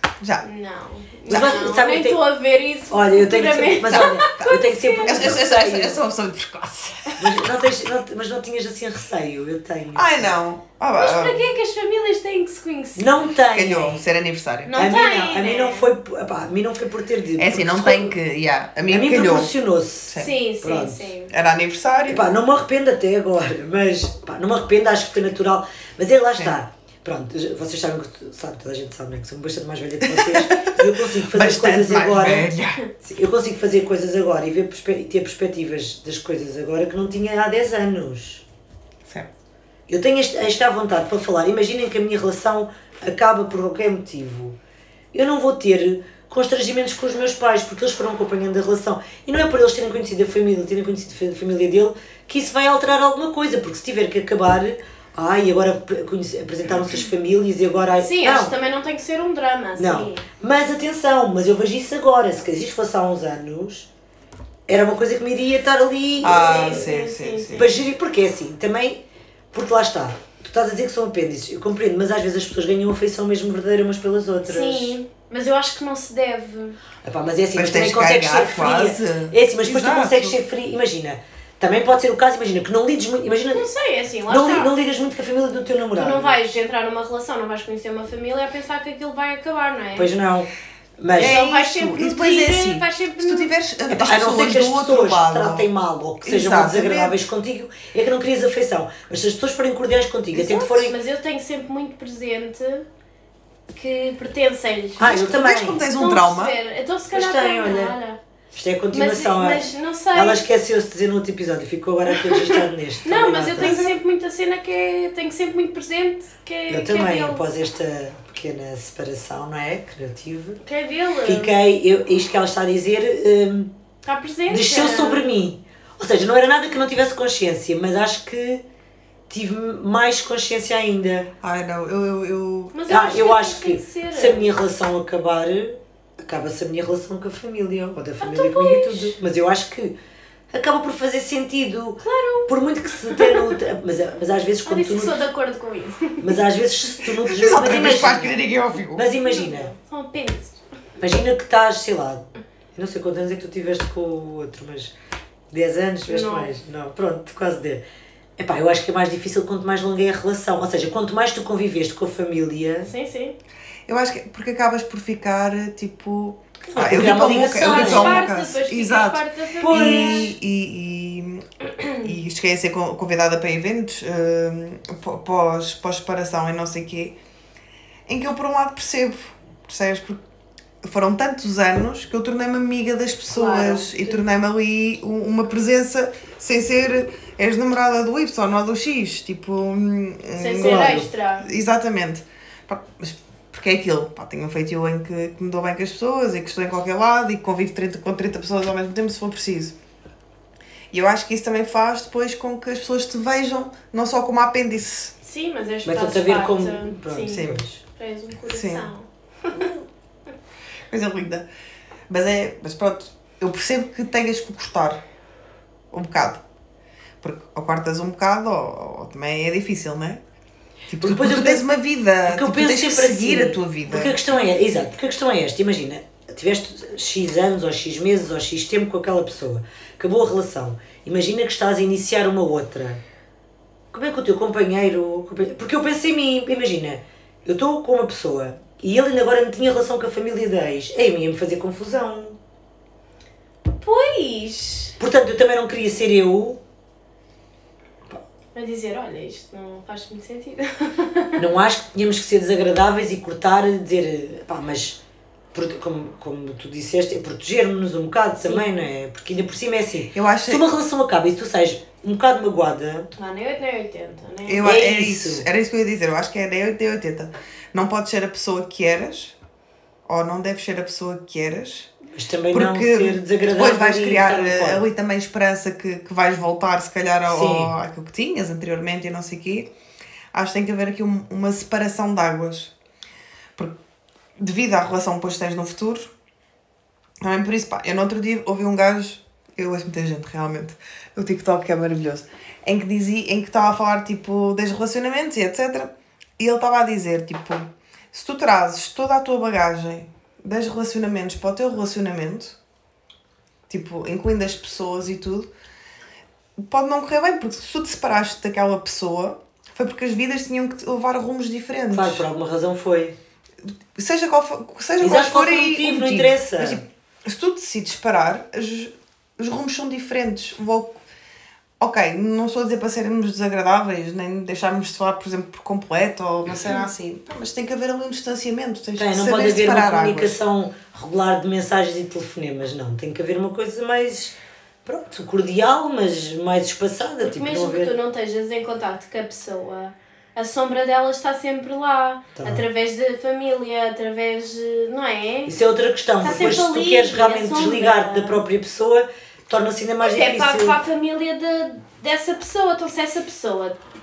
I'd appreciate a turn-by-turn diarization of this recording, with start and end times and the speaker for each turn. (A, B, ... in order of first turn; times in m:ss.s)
0:00.2-0:00.5 A
0:00.4-0:05.4 B
0:01.3-0:01.6 A
0:01.3-0:02.2 C
0:02.9-0:06.0 C
0:03.9-0:07.5 A
0:07.2-0:10.3 C
0:10.0-0:11.4 A
0:11.0-0:13.2 B
0:13.0-0:14.1 C
0:13.5-0:14.8 A
0:14.6-0:15.9 B
0:14.7-0:18.2 C
0:17.4-0:19.5 A
0:18.9-0:21.1 C
0:20.1-0:20.3 A
0:20.2-0:21.3 B
0:21.3-0:22.3 A
0:22.1-0:38.4 C
0:30.1-0:32.8 A
0:39.9-0:44.6 C
0:45.1-0:58.5 C
0:58.0-1:00.2 B
0:59.8-1:03.9 C
1:04.7-1:06.9 C
1:06.2-1:07.7 A
1:06.2-1:07.8 B
1:07.6-1:15.0 C
1:14.4-1:16.8 B
1:17.0-1:23.7 C
1:17.5-1:20.4 A
1:23.5-1:24.7 B
1:24.3-1:26.4 C
1:26.0-1:30.1 B
1:30.0-1:31.4 C
1:31.2-1:33.5 B
1:31.2-1:35.7 A
1:33.9-1:41.0 C
1:36.2-1:37.2 A
1:40.3-1:42.8 B
1:43.7-1:45.2 B
1:45.0-1:45.8 C
1:45.0-1:46.6 A
1:45.9-1:48.2 B
1:47.1-1:47.9 C
1:48.5-1:53.8 C
1:48.9-1:50.4 B
1:53.0-1:57.4 B
1:53.6-1:54.0 A
1:56.7-2:00.6 C
2:00.6-2:01.6 B
2:01.2-2:03.7 C
2:04.0-2:05.2 B
2:04.5-2:08.6 C
2:09.3-2:11.3 C
2:11.4-2:12.8 A
2:12.7-2:14.5 B
2:12.9-2:20.0 C
2:18.2-2:19.2 B
2:20.5-2:25.2 C
2:22.0-2:22.5 B
2:23.0-2:23.5 B
2:24.6-2:26.4 B
2:26.2-2:28.4 C
2:27.4-2:29.1 A
2:27.4-2:28.3 B
2:29.0-2:29.7 C
2:29.2-2:30.6 B
2:31.0-2:34.9 C
2:35.5-2:37.8 C
2:36.1-2:36.5 B
2:38.4-2:42.9 C
2:42.8-2:43.4 B
2:43.9-2:51.4 A
2:46.7-2:48.2 C
2:46.9-2:50.3 B
2:49.6-2:50.3 C
2:52.0-2:57.2 A
2:58.1-3:00.2 A
3:00.8-3:19.8 A
3:03.3-3:04.2 B
3:10.4-3:11.5 B
3:10.6-3:11.1 C
3:20.9-3:25.1 A
3:25.2-3:29.7 B
3:25.8-3:27.8 C
3:27.3-3:27.6 A
3:28.5-3:28.9 A
3:29.5-3:29.8 A
3:30.9-3:31.5 A
3:32.1-3:35.0 A
3:35.9-3:36.4 A
3:37.2-3:40.2 A
3:40.9-3:41.7 C
3:40.9-3:44.2 A
3:42.3-3:53.0 C
3:53.9-4:02.4 C
4:03.8-4:05.0 B
4:05.0-4:06.6 C
4:08.5-4:11.4 B
4:11.4-4:15.0 C
4:15.5-4:23.1 C
4:20.1-4:20.6 A
4:23.1-4:24.7 B
4:24.5-4:29.4 A
4:24.6-4:25.5 C
4:30.1-4:31.9 A
4:32.1-4:34.8 C
4:32.5-4:39.7 A
4:37.2-4:37.7 C
4:40.3-4:42.7 A
4:44.4-4:46.1 A
4:47.2-5:02.6 A
5:03.7-5:05.5 A
5:06.6-5:12.2 A
5:11.9-5:13.2 C
5:14.0-5:21.0 A
5:15.0-5:16.8 C
5:21.8-5:30.4 A
5:29.0-5:37.9 C
5:37.2-5:45.5 B
5:42.4-5:42.6 C
5:45.5-5:50.8 C
5:46.2-5:48.4 B
5:50.0-5:53.8 B